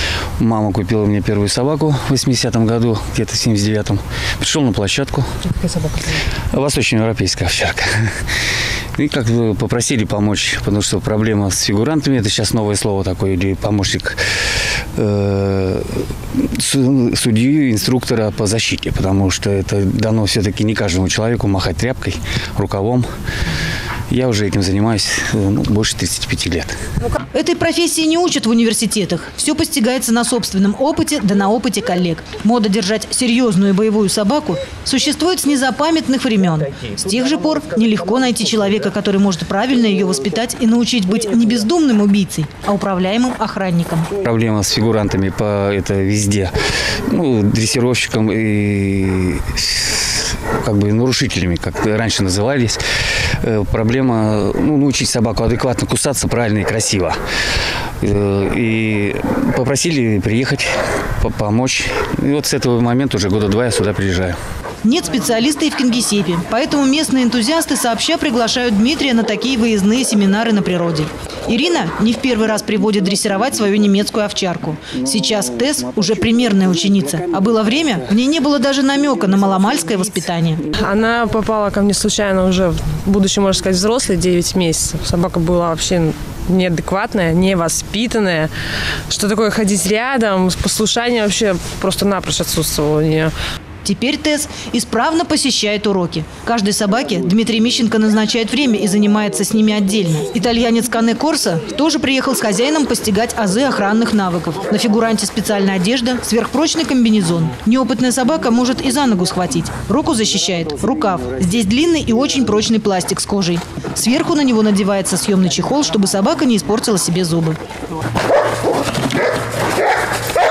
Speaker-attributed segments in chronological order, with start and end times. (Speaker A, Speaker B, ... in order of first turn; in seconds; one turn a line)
Speaker A: 0.4-5.4
Speaker A: 6.5-8.4
Speaker A: 8.9-14.2
Speaker A: 14.9-23.1
Speaker A: 24.1-26.8
Speaker B: 27.3-44.1
Speaker A: 44.2-57.2
Speaker A: 58.0-64.4
Speaker B: 64.8-80.6
Speaker C: 80.7-88.5
Speaker C: 89.1-93.3
Speaker B: 93.8-117.6